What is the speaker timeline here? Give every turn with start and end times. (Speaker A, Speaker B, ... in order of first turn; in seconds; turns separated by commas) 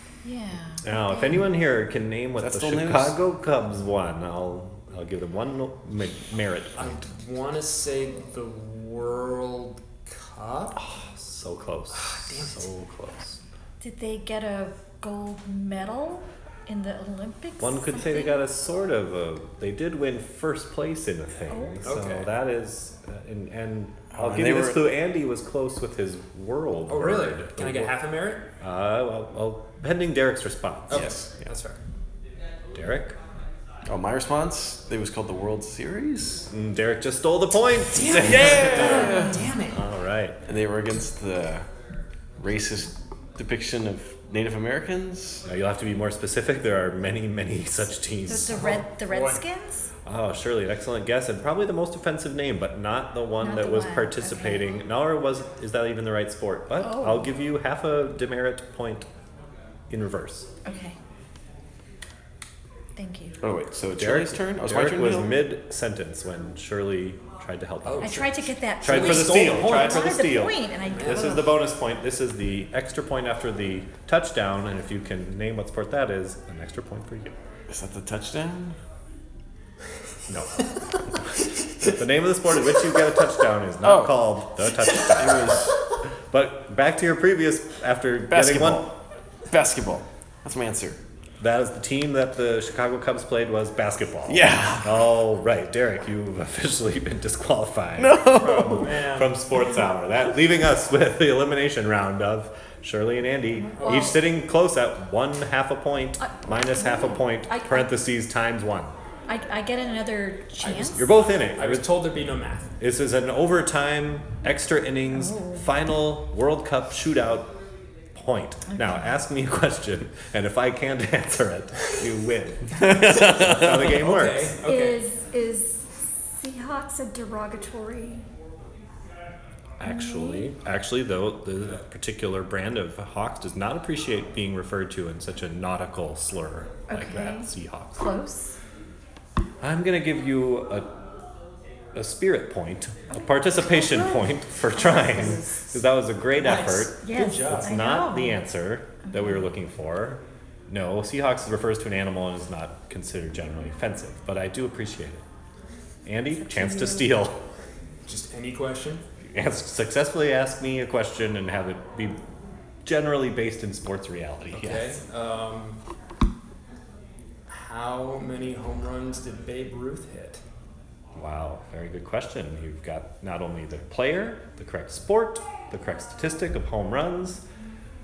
Speaker A: 0.2-1.4, Speaker B: 0.8-7.0, Speaker C: 2.4-3.1, Speaker D: 6.8-10.8, Speaker B: 10.8-13.4, Speaker D: 11.9-12.6, Speaker A: 13.8-18.4, Speaker B: 17.6-27.9, Speaker A: 21.5-21.8, Speaker D: 21.8-22.3, Speaker C: 24.1-24.9, Speaker D: 26.9-28.5, Speaker B: 28.6-31.1, Speaker D: 30.9-31.8, Speaker C: 30.9-31.3, Speaker B: 32.7-33.2, Speaker C: 33.9-36.5, Speaker B: 36.5-40.4, Speaker D: 37.9-39.8, Speaker C: 38.2-39.4, Speaker C: 40.5-41.7, Speaker C: 42.4-45.4, Speaker B: 45.4-48.7, Speaker A: 48.3-49.9, Speaker D: 48.5-49.4, Speaker B: 50.0-59.1, Speaker A: 53.4-54.7, Speaker A: 56.8-57.3, Speaker B: 59.9-60.5, Speaker A: 60.6-61.0, Speaker A: 63.0-63.4, Speaker C: 63.4-65.5, Speaker B: 63.9-77.3, Speaker D: 67.8-70.1, Speaker A: 68.0-71.5, Speaker D: 70.9-71.5, Speaker C: 77.7-78.8, Speaker B: 80.3-80.6, Speaker B: 81.8-85.7, Speaker C: 83.8-84.3, Speaker C: 85.0-85.8, Speaker B: 86.3-88.9, Speaker C: 88.3-88.9, Speaker C: 89.5-91.0, Speaker B: 91.4-108.9, Speaker C: 94.3-95.0, Speaker C: 98.0-98.8, Speaker D: 98.4-99.4, Speaker A: 103.8-104.2, Speaker D: 103.8-104.0, Speaker A: 106.2-107.9, Speaker A: 109.3-111.1, Speaker D: 110.6-112.7, Speaker B: 110.9-112.0, Speaker B: 112.8-117.5, Speaker A: 115.1-115.7, Speaker B: 118.1-124.5, Speaker A: 118.7-119.0, Speaker C: 122.8-123.2, Speaker D: 123.3-125.0, Speaker A: 124.6-128.2, Speaker B: 129.8-138.1, Speaker A: 129.8-130.5, Speaker A: 136.9-138.6, Speaker B: 139.6-140.9, Speaker B: 141.9-155.2, Speaker A: 143.6-145.7, Speaker A: 146.4-148.5, Speaker D: 147.0-147.8, Speaker A: 149.1-149.4, Speaker B: 156.1-157.4, Speaker A: 156.3-157.1, Speaker D: 158.1-159.0, Speaker B: 159.2-162.2, Speaker B: 162.8-165.0, Speaker D: 164.5-165.8, Speaker D: 167.5-170.4, Speaker B: 171.1-177.4